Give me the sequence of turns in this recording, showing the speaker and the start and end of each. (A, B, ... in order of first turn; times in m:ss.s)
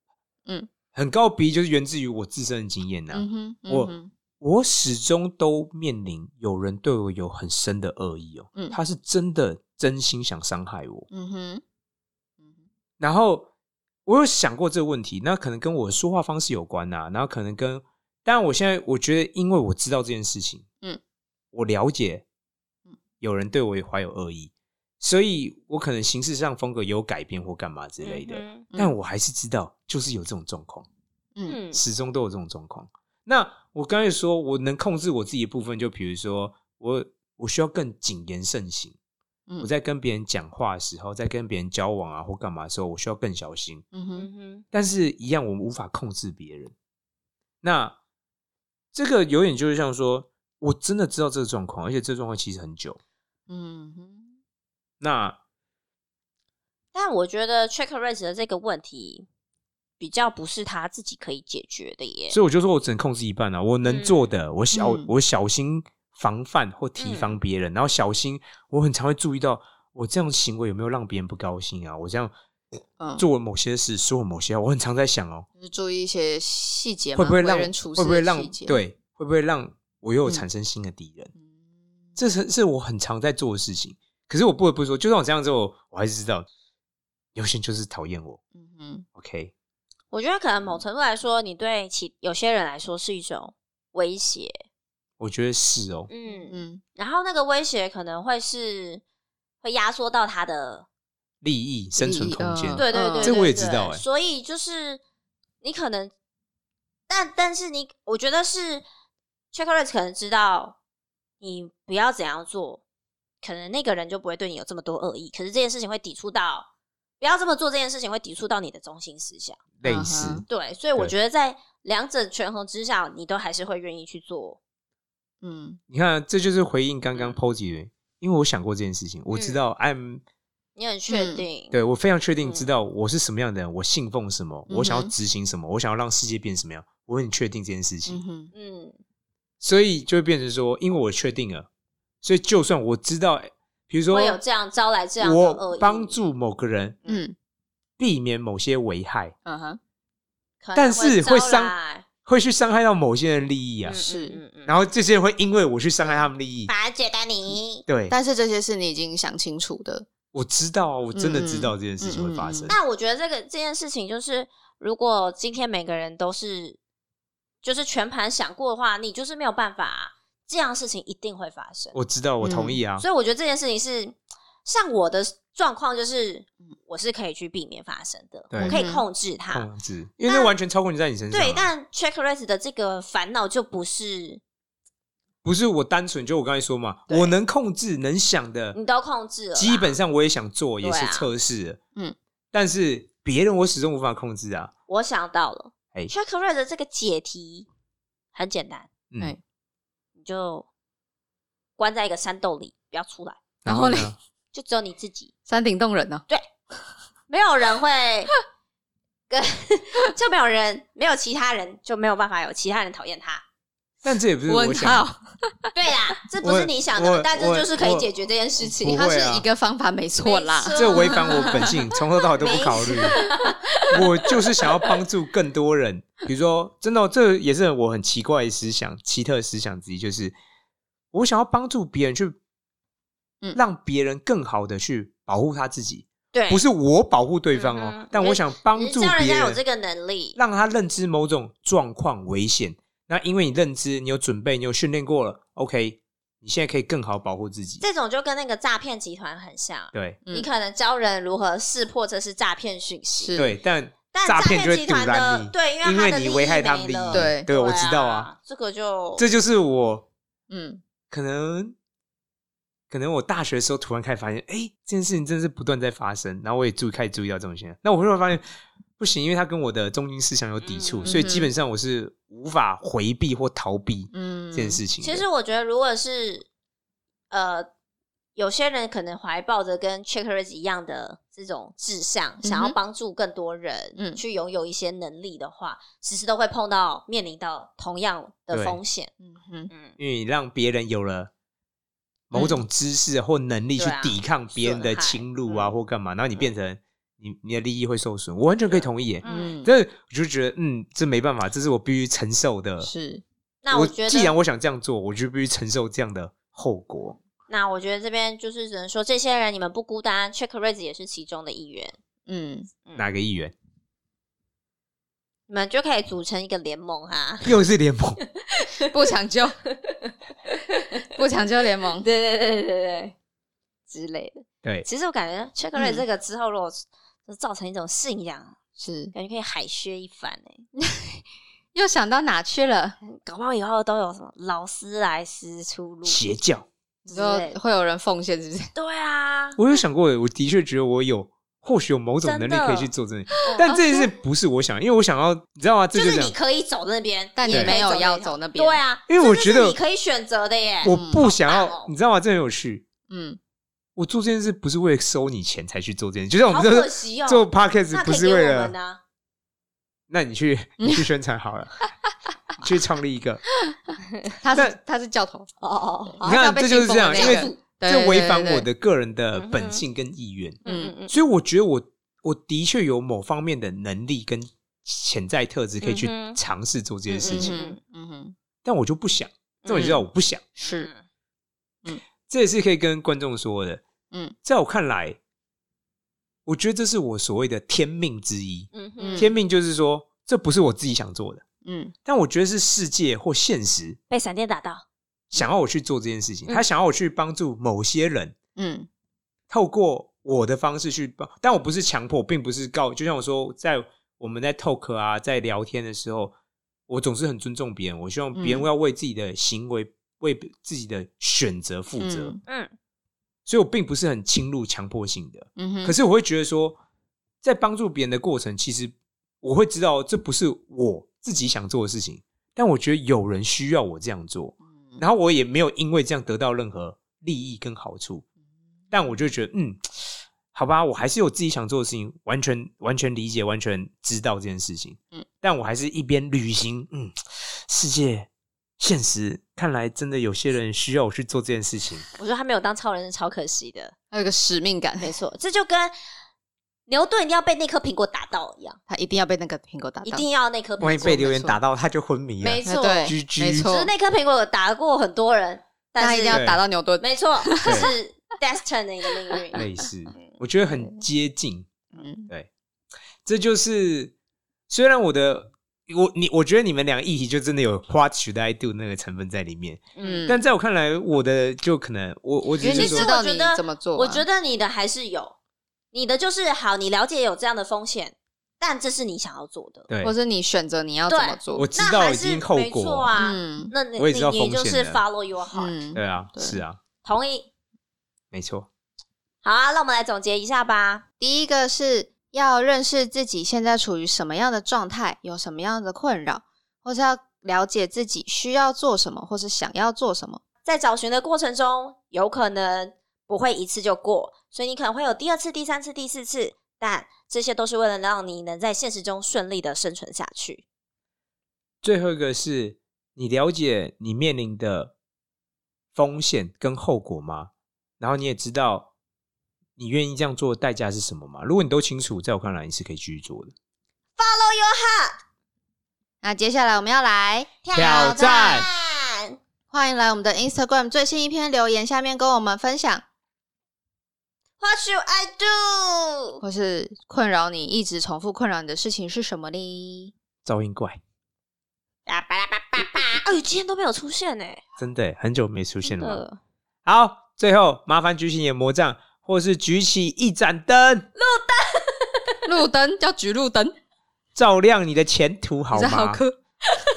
0:00.9-0:11.1 A
0:03.1-0:04.1 B
0:11.1-0:11.6 B
0:13.0-0:13.5 A
0:14.0-0:20.7 A
0:21.5-0:22.2 A
0:23.2-0:30.9 A
0:28.0-0:28.6 C
0:31.5-0:31.8 C
0:31.7-0:39.0 A
0:39.6-0:43.8 A
0:43.9-0:44.3 B
0:44.2-0:44.6 C
0:44.7-0:46.7 A
0:47.6-0:48.0 A
0:48.9-0:53.0 A
0:53.5-0:54.4 B
0:55.0-0:55.4 A
0:56.9-0:59.3 C
1:00.0-1:02.4 C
1:02.3-1:12.3 A
1:03.9-1:04.3 C
1:04.7-1:05.1 B
1:07.0-1:07.4 C
1:13.0-1:13.2 B
1:13.2-1:15.5 A
1:15.6-1:18.8 B
1:17.2-1:21.3 A
1:22.2-1:26.5 A
1:27.4-1:28.4 A
1:28.5-1:29.1 B
1:29.2-1:29.5 A
1:30.1-1:34.6 C
1:35.2-1:36.1 A
1:36.1-1:39.0 C
1:36.3-1:36.8 B
1:39.6-1:40.9 C
1:41.4-1:44.0 A
1:42.0-1:43.4 B
1:42.7-1:45.0 C
1:45.6-1:46.1 C
1:47.1-1:48.8 C
1:49.5-1:50.8 C
1:51.4-1:52.8 C
1:53.4-1:56.7 C
1:57.2-1:59.6 C
1:59.8-2:00.4 A
1:59.8-2:00.5 B
2:00.5-2:04.6 C
2:05.4-2:05.8 B
2:05.9-2:10.2 A
2:07.2-2:07.4 C
2:09.3-2:09.6 C
2:10.8-2:11.8 C
2:11.1-2:11.4 B
2:11.7-2:18.2 A
2:12.4-2:12.7 C
2:14.7-2:15.1 B
2:18.1-2:18.5 B
2:18.5-2:19.0 C
2:19.6-2:21.7 A
2:22.2-2:24.4 A
2:24.1-2:26.2 C
2:25.2-2:27.0 A
2:27.1-2:27.4 B
2:28.0-2:29.3 A
2:29.4-2:29.8 B
2:30.6-2:32.1 C
2:30.8-2:31.7 A
2:32.2-2:34.0 A
2:33.8-2:34.8 C
2:33.9-2:34.4 B
2:34.7-2:36.7 A
2:36.7-2:37.8 C
2:37.9-2:38.2 A
2:38.1-2:40.1 B
2:40.3-2:42.8 A
2:41.1-2:42.7 B
2:42.7-2:46.8 C
2:47.6-2:52.0 C
2:51.9-2:53.0 A
2:52.4-2:52.8 B
2:53.0-2:59.7 C
2:58.5-2:58.8 A
2:58.6-2:59.0 B
2:59.5-3:01.7 A
3:00.3-3:00.5 C
3:01.3-3:04.4 C
3:05.4-3:08.8 A
3:07.1-3:07.3 C
3:08.7-3:10.0 C
3:09.6-3:11.8 A
3:10.8-3:11.3 C
3:12.5-3:14.7 A
3:14.9-3:17.7 C
3:18.3-3:18.9 C
3:19.1-3:19.4 A
3:20.2-3:20.7 C
3:21.8-3:23.4 C
3:23.6-3:24.1 B
3:23.7-3:24.2 A
3:24.5-3:25.3 C
3:25.5-3:26.2 B
3:27.3-3:28.3 C
3:29.3-3:33.4 C
3:34.0-3:35.1 A
3:34.5-3:35.7 B
3:35.7-3:39.0 C
3:36.4-3:38.1 A
3:38.6-3:39.5 A
3:38.8-3:41.9 B
3:40.2-3:41.8 C
3:40.7-3:43.3 A
3:42.4-3:44.0 C
3:43.9-3:50.4 A
3:51.1-3:52.4 A
3:53.5-3:59.6 A
3:56.3-3:56.6 C
3:57.5-4:00.4 C
4:00.4-4:07.8 A
4:07.8-4:13.4 C
4:09.9-4:10.2 A
4:13.2-4:13.5 B
4:13.4-4:18.3 A
4:14.1-4:19.3 C
4:17.1-4:17.5 B
4:19.2-4:20.1 A
4:20.5-4:20.8 B
4:21.1-4:21.8 A
4:22.9-4:28.4 A
4:29.0-4:35.2 A
4:30.6-4:31.2 C
4:31.0-4:31.5 B
4:34.1-4:34.8 B
4:35.0-4:36.5 C
4:37.3-4:37.7 C
4:38.4-4:49.1 C
4:42.4-4:42.8 B
4:44.0-4:44.2 B
4:48.5-4:48.8 A
4:49.2-4:49.7 B
4:49.7-4:50.0 C
4:50.0-4:51.3 A
4:52.3-5:02.9 A
4:52.3-4:52.6 B
4:53.8-4:55.7 C
4:59.2-4:59.6 C
4:59.2-4:59.7 B
5:02.8-5:03.2 B
5:03.6-5:04.3 C
5:03.7-5:07.2 A
5:07.5-5:12.0 C
5:12.3-5:12.7 B
5:13.0-5:13.5 A
5:15.5-5:17.6 C
5:17.4-5:18.2 A
5:18.5-5:18.9 C
5:18.8-5:19.6 B
5:19.8-5:20.1 C
5:20.8-5:21.1 C
5:21.1-5:22.0 B
5:22.0-5:23.2 C
5:23.9-5:28.6 C
5:25.8-5:26.0 B
5:28.8-5:29.1 B
5:29.1-5:30.6 C
5:30.8-5:31.2 B
5:31.7-5:33.0 B
5:33.0-5:36.2 C
5:36.0-5:36.7 A
5:37.0-5:37.6 C
5:37.1-5:38.7 B
5:38.8-5:39.6 C
5:39.6-5:46.3 A
5:42.2-5:42.9 C
5:43.4-5:43.8 B
5:43.4-5:44.1 C
5:45.9-5:51.9 C
5:47.4-5:48.8 B
5:47.5-5:47.8 A
5:49.1-5:49.8 A
5:50.8-5:52.9 A
5:50.9-5:51.2 B
5:53.1-5:53.4 B
5:54.0-5:58.8 A
5:56.4-5:59.0 C
6:00.1-6:01.8 A
6:02.6-6:03.4 A
6:04.4-6:05.5 B
6:05.6-6:06.4 C
6:06.1-6:08.7 B
6:06.2-6:17.6 A
6:07.1-6:07.6 C
6:09.3-6:09.8 C
6:10.6-6:11.2 C
6:10.7-6:10.9 B
6:15.8-6:16.4 C
6:17.1-6:17.8 C
6:17.2-6:18.4 B
6:18.6-6:20.4 A
6:19.6-6:20.0 C
6:19.7-6:20.0 B
6:20.6-6:20.9 B
6:20.6-6:21.0 C
6:22.3-6:23.8 A
6:24.4-6:25.2 A
6:26.5-6:31.4 A
6:28.7-6:29.3 C
6:29.0-6:29.3 B
6:31.6-6:31.9 B
6:32.0-6:34.0 A
6:34.1-6:34.8 C
6:35.3-6:38.4 A
6:38.6-6:38.9 B
6:39.5-6:46.3 A
6:46.9-6:52.4 A
6:48.4-6:48.7 B
6:52.0-6:52.4 B
6:52.5-6:52.7 C
6:53.5-6:56.8 A
6:55.6-6:56.0 B
6:57.4-7:08.2 A
7:08.9-7:18.3 A
7:18.8-7:22.1 A
7:22.2-7:24.0 C
7:24.1-7:25.1 B
7:25.0-7:25.9 C
7:26.9-7:28.8 C
7:28.9-7:30.3 B
7:30.0-7:31.3 C
7:30.8-7:33.7 A
7:31.0-7:31.6 B
7:32.4-7:36.4 C
7:32.6-7:33.9 B
7:36.0-7:37.9 B
7:36.3-7:36.6 A
7:37.0-7:39.6 C
7:37.6-7:37.9 A
7:39.6-7:41.7 A
7:40.7-7:41.0 B
7:42.0-7:42.3 B
7:43.2-7:44.1 A
7:44.7-7:53.1 A
7:50.0-7:50.3 C
7:50.0-7:50.4 B
7:52.6-7:54.2 B
7:52.6-7:55.4 C
7:55.9-7:59.9 C
7:59.9-8:00.1 A
8:00.0-8:01.7 B
8:01.1-8:05.8 C
8:01.6-8:03.1 A
8:03.2-8:03.7 B
8:04.0-8:05.0 A
8:05.5-8:06.6 B
8:05.9-8:06.8 A
8:07.0-8:07.5 C
8:08.3-8:08.7 A
8:09.4-8:11.0 C
8:11.2-8:20.4 B
8:20.6-8:30.6 C
8:31.8-8:34.9 A
8:36.0-8:38.9 A
8:39.8-8:43.5 A
8:44.2-8:45.2 C
8:46.2-8:48.3 B
8:47.6-8:49.4 C
8:47.7-8:48.7 A
8:49.7-8:53.0 B
8:54.6-8:56.4 C
8:56.4-9:00.1 B
9:00.4-9:01.0 A
9:02.1-9:04.6 C
9:04.8-9:06.2 A
9:05.8-9:06.4 C
9:06.8-9:11.1 A
9:11.2-9:12.4 C
9:12.4-9:13.8 B
9:14.4-9:16.2 A
9:15.7-9:16.4 B